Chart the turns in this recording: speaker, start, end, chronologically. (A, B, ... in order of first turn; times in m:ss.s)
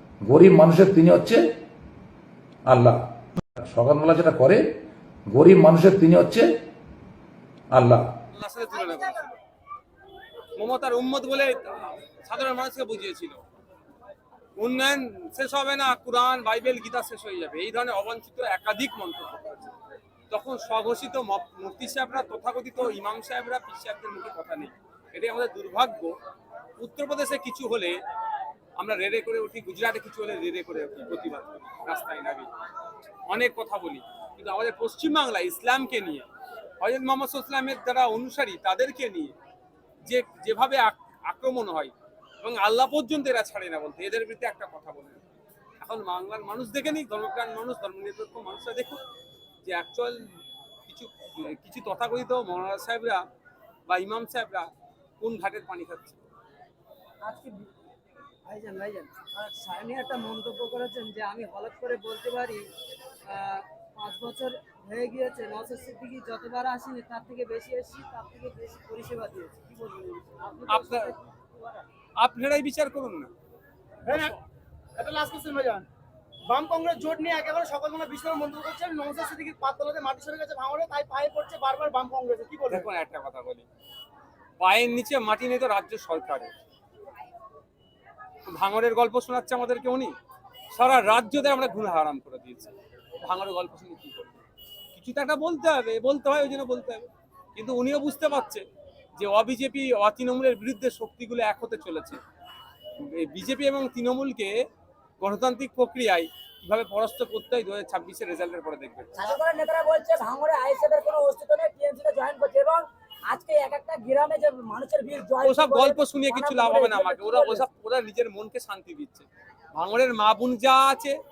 0:00.2-0:01.4 A
0:02.7-0:03.0 A
0:03.5-0:04.6 A
0:05.3-0:06.5 A
0:07.7-0:08.1 A
0:08.3-0:09.4 B
0:10.6-0:13.4 B
0:14.6-0:19.7 B
0:20.3-0:26.1 B
0:26.8-0:28.0 B
0:28.8-0:32.5 B
0:33.3-0:36.3 B
0:36.8-0:39.3 B
0:40.1-0:45.2 B
0:45.8-0:49.0 B
0:49.6-0:50.2 B
0:50.9-0:53.2 B
0:53.9-0:56.2 B
0:57.2-0:57.6 C
0:58.5-0:59.1 C
0:58.6-1:02.7 D
0:59.8-1:01.8 C
1:03.3-1:11.8 D
1:04.0-1:05.5 C
1:06.0-1:06.4 C
1:10.7-1:11.1 B
1:12.2-1:13.3 B
1:14.0-1:14.4 E
1:15.0-1:15.9 E
1:16.5-1:22.9 E
1:22.7-1:23.6 B
1:24.6-1:26.6 B
1:28.5-1:30.1 B
1:30.7-1:34.4 B
1:34.9-1:38.6 B
1:39.2-1:42.2 B
1:43.0-1:44.6 B
1:45.2-1:49.2 B
1:49.1-1:57.6 C
1:55.4-2:01.2 B